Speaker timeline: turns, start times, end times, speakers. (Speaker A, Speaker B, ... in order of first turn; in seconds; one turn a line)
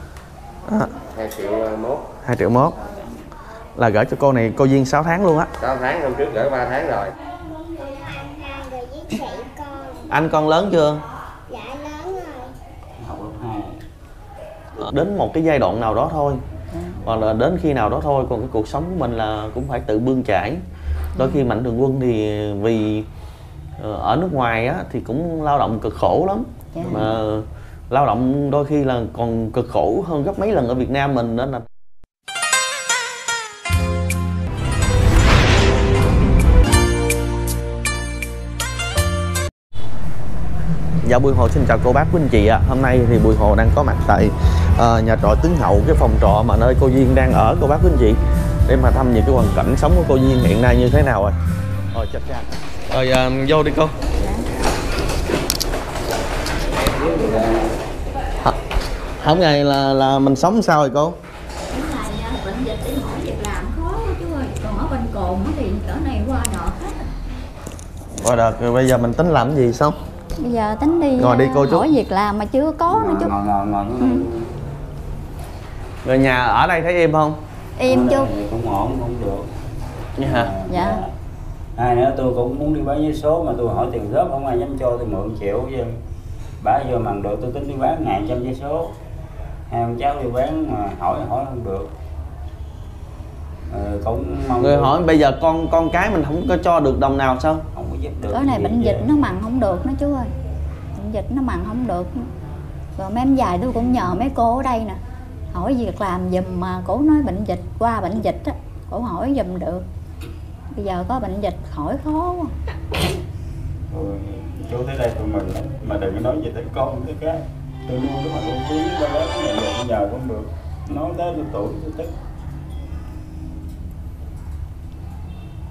Speaker A: 0.7-0.9
Speaker B: 1.0-2.1
Speaker A: 2.2-2.7
Speaker A: 3.8-5.5
Speaker B: 5.6-7.1
Speaker C: 7.5-10.1
Speaker A: 10.1-11.0
Speaker C: 11.5-12.5
Speaker D: 13.0-13.8
Speaker A: 14.8-16.4
Speaker E: 16.7-17.0
Speaker A: 17.0-20.6
Speaker A: 21.1-23.1
Speaker A: 23.8-31.6
Speaker E: 26.7-27.2
Speaker A: 41.0-51.4
Speaker A: 51.9-54.0
Speaker E: 54.1-54.6
Speaker D: 56.6-57.8
Speaker A: 59.2-61.2
Speaker E: 61.7-67.1
Speaker A: 68.1-70.0
Speaker E: 70.4-73.3
Speaker A: 71.2-71.9
Speaker D: 72.9-74.6
Speaker E: 74.0-74.2
Speaker A: 76.0-77.4
Speaker E: 77.8-78.3
Speaker D: 77.8-79.5
Speaker A: 80.2-80.5
Speaker D: 80.2-81.1
Speaker E: 80.7-81.0
Speaker D: 81.8-86.0
Speaker D: 86.6-89.0
Speaker D: 89.7-91.9
Speaker D: 93.7-95.0
Speaker A: 94.6-97.7
Speaker D: 97.7-99.1
Speaker E: 98.3-100.3
Speaker E: 100.9-102.3
Speaker E: 103.0-105.0
Speaker E: 105.5-109.8
Speaker E: 110.7-112.5
Speaker D: 113.9-122.1